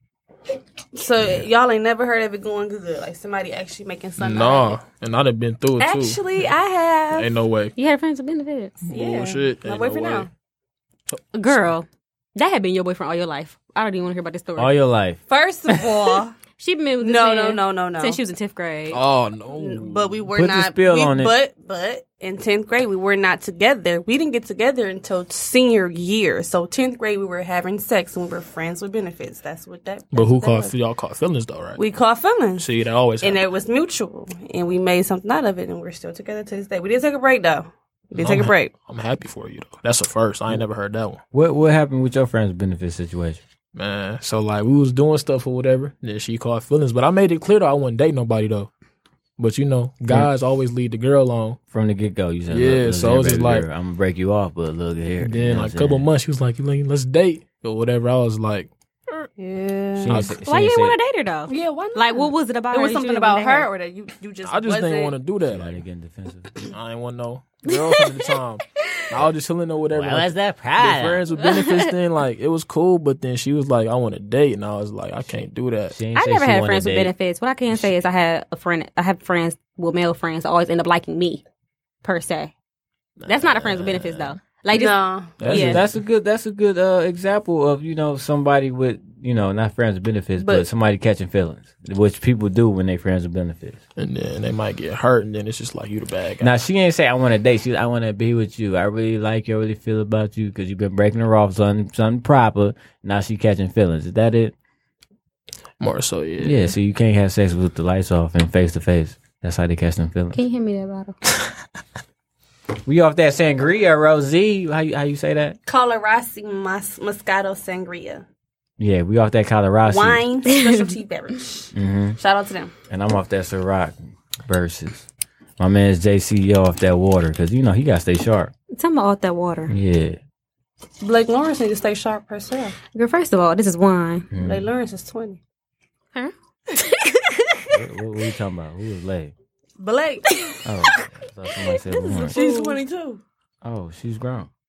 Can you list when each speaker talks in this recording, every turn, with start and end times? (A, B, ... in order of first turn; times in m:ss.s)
0:00.9-0:04.8 A
0:04.2-0:06.2 B
0:05.8-0:07.4 A
0:07.2-0:07.7 B
0:07.8-0:08.9 C
0:08.9-0:10.3 A
0:08.9-0:10.3 B
0:11.3-0:14.8 C
0:14.6-0:15.9 D
0:15.3-0:16.4 A
0:16.6-0:19.0 C
0:17.0-0:18.2 A
0:18.9-0:20.2 B
0:19.5-0:30.7 A
0:20.4-0:21.3 D
0:30.1-0:31.8 B
0:31.8-0:38.7 A
0:32.6-0:33.4 B
0:38.2-0:41.2 B
0:41.3-0:43.4 D
0:43.8-0:48.7 B
0:49.4-0:51.6 B
0:51.7-0:56.1 D
0:52.5-0:53.7 B
0:55.2-0:58.7 B
0:59.4-1:00.2 A
1:00.0-1:01.0 D
1:00.4-1:03.7 C
1:01.5-1:05.2 A
1:04.4-1:05.8 B
1:05.5-1:06.7 D
1:06.7-1:08.6 B
1:07.6-1:09.2 C
1:09.1-1:16.0 B
1:09.9-1:11.3 D
1:11.3-1:12.0 C
1:15.9-1:17.1 D
1:16.1-1:21.4 C
1:22.0-1:22.5 C
1:23.2-1:24.3 B
1:23.3-1:25.8 C
1:24.7-1:25.8 A
1:25.4-1:25.9 B
1:25.5-1:33.8 D
1:30.4-1:30.7 A
1:34.0-1:36.6 B
1:36.4-1:44.5 D
1:45.8-1:46.7 B
1:46.4-1:50.4 D
1:50.3-1:51.2 C
1:52.9-1:55.6 D
1:55.7-1:58.2 A
1:58.8-2:00.2 D
1:59.9-2:02.7 A
2:00.5-2:00.9 C
2:01.7-2:02.2 D
2:02.9-2:05.1 D
2:05.6-2:08.5 D
2:08.7-2:09.8 C
2:09.7-2:10.2 D
2:11.0-2:12.8 A
2:13.0-2:14.3 C
2:14.3-2:14.7 D
2:14.4-2:15.4 A
2:16.2-2:17.8 C
2:17.7-2:19.3 D
2:19.8-2:20.4 A
2:20.3-2:21.0 C
2:20.6-2:22.4 D
2:21.7-2:22.8 C
2:22.3-2:23.2 A
2:23.6-2:24.5 D